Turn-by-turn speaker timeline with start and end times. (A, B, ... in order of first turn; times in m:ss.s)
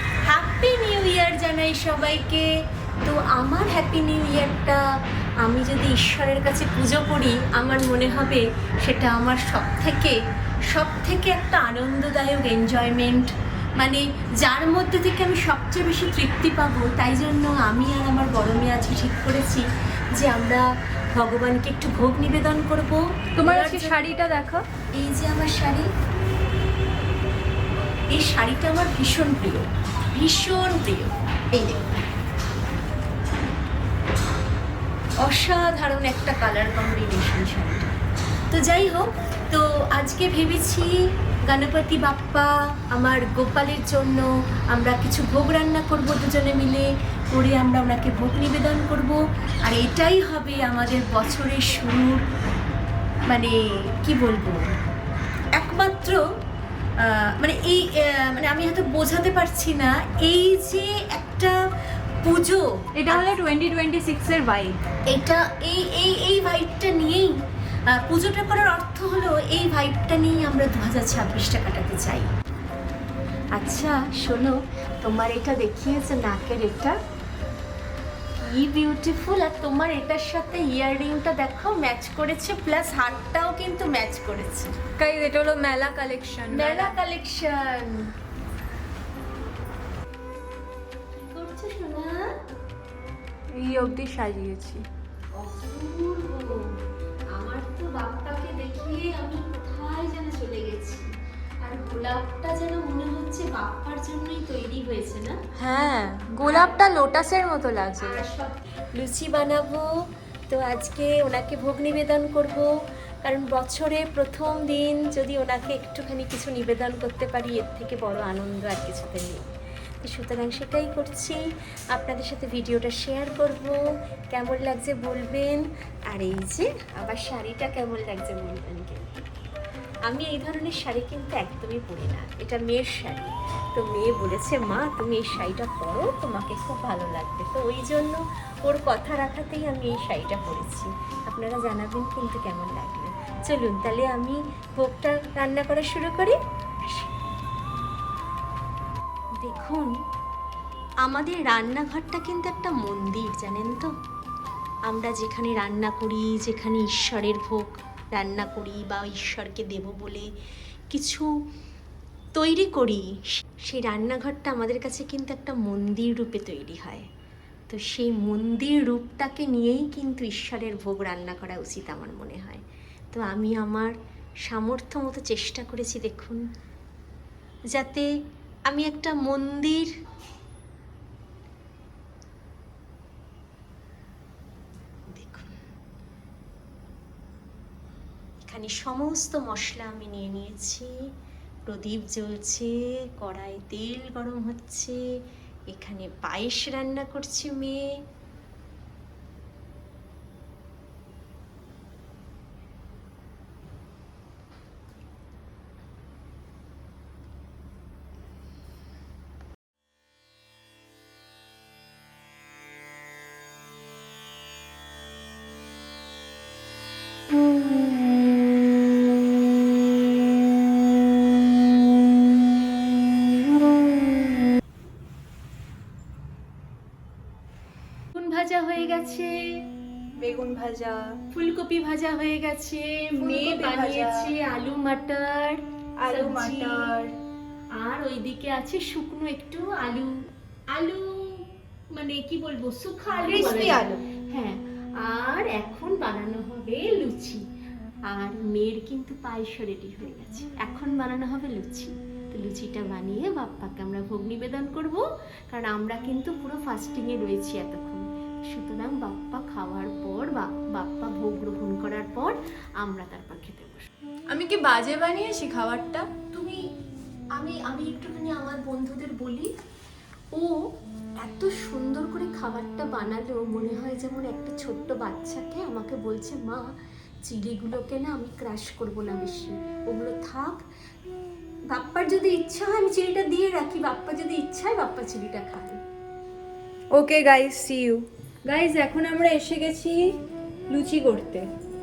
0:00.2-0:02.5 A
0:03.0-0:04.8 A
0:05.4-0:19.6 A
0:20.2-0:24.0 A
0:23.4-0:24.7 B
0:25.0-0:25.9 A
0:28.1-0:31.9 A
0:35.2-0:37.9 A
0:38.5-0:40.9 A
0:41.5-0:52.2 A
0:53.3-0:54.7 A
0:55.5-0:56.2 A
0:57.0-1:01.6 A
1:02.2-1:03.3 A
1:03.0-1:04.8 B
1:05.1-1:07.3 A
1:07.9-1:12.3 A
1:13.6-1:17.0 A
1:18.4-1:24.8 A
1:25.0-1:27.0 B
1:26.5-1:28.1 A
1:31.1-1:32.2 A
1:33.5-1:34.9 B
1:35.3-1:36.6 A
1:37.3-1:41.1 A
1:41.6-1:45.4 A
1:45.6-1:48.2 B
1:46.4-1:46.9 A
1:48.0-1:49.9 A
1:50.5-1:52.7 A
1:53.2-1:59.5 A
2:00.0-2:01.4 A
2:01.9-2:03.8 A
2:04.3-2:09.1 A
2:10.1-2:26.4 A
2:29.4-2:29.9 A
2:31.0-2:33.9 A
2:34.9-2:40.3 A
2:40.9-2:41.3 A
2:42.4-2:43.1 A
2:43.7-2:47.1 A
2:47.7-2:54.0 A
2:54.5-2:56.4 A
2:57.7-2:58.1 A
2:58.7-2:59.9 A
3:05.2-3:05.5 A
3:08.4-3:10.9 A
3:11.7-3:15.0 A
3:15.7-3:17.8 A
3:48.1-3:49.3 A
3:50.2-3:51.2 B
3:51.3-3:56.9 A
3:53.2-3:54.3 B
3:56.0-3:57.2 B
3:57.7-4:00.1 A
4:00.7-4:01.4 A
4:02.0-4:07.4 A
4:03.2-4:04.0 B
4:08.1-4:23.9 A
4:24.3-4:26.1 B
4:26.3-4:26.7 A
4:27.4-4:29.5 A
4:31.2-4:36.7 A
4:37.3-4:40.6 A
4:41.7-4:45.8 A
4:46.9-4:50.1 B
4:50.7-4:51.5 B